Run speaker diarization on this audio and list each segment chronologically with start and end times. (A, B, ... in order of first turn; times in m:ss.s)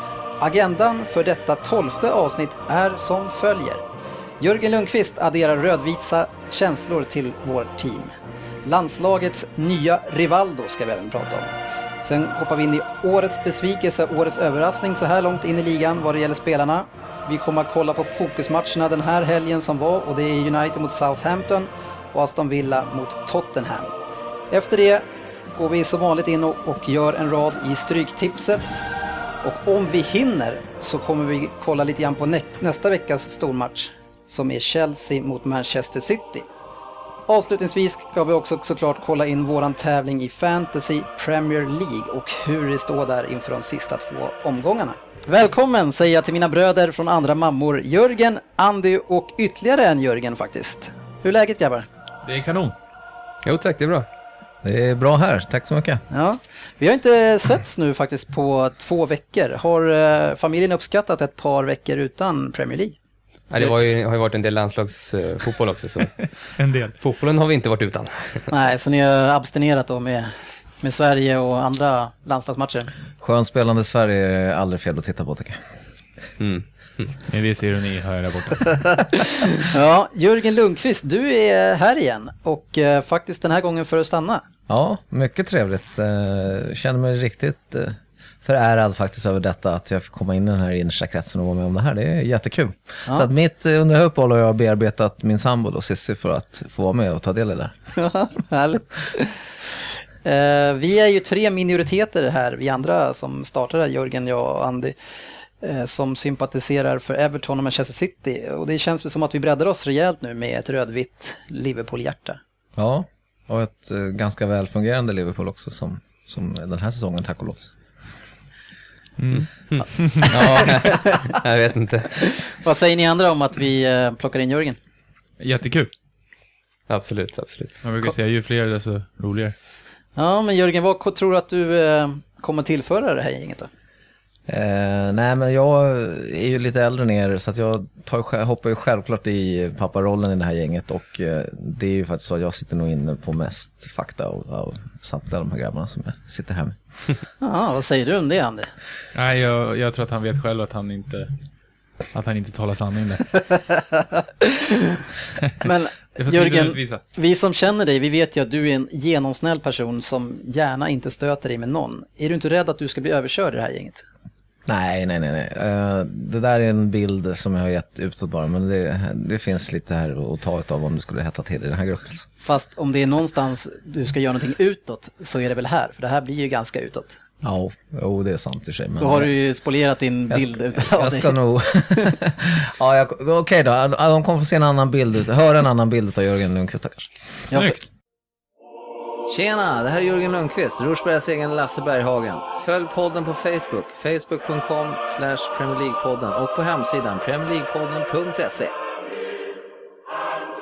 0:00.4-0:03.8 A
0:04.4-0:08.1 A
0:08.6-0:23.9 A
0:24.5-0:28.8 A
0:29.4-0:36.5 A
0:37.3-0:51.8 A
0:52.2-0:52.8 B
0:53.4-0:54.1 C
0:54.6-0:56.0 D
0:56.1-1:03.0 A
1:03.5-1:06.3 C
1:06.6-1:07.0 B
1:07.0-1:08.5 C
1:08.5-1:12.9 A
1:13.2-1:15.6 D
1:16.4-1:17.2 C
1:17.2-1:19.2 B
1:19.6-1:24.4 A
1:24.7-1:37.7 D
1:37.9-1:39.4 A
1:40.2-1:45.0 A
1:45.6-1:52.4 A
1:52.8-1:57.7 D
1:59.2-2:00.4 B
1:59.3-2:02.2 C
2:00.4-2:01.3 A
2:02.2-2:04.8 A
2:05.4-2:05.9 B
2:06.9-2:07.8 C
2:07.8-2:09.5 B
2:10.2-2:13.7 A
2:14.5-2:26.8 D
2:27.4-2:28.7 A
2:29.1-2:31.3 B
2:32.1-2:33.4 B
2:33.7-2:35.0 A
2:35.4-2:37.0 B
2:35.6-2:44.0 A
2:44.6-2:52.3 D
2:52.4-2:57.2 A
2:57.4-2:59.3 D
2:59.0-3:01.4 A
3:00.3-3:07.1 D
3:01.9-3:02.2 A
3:07.5-3:07.8 B
3:07.5-3:07.8 A
3:09.3-3:18.7 D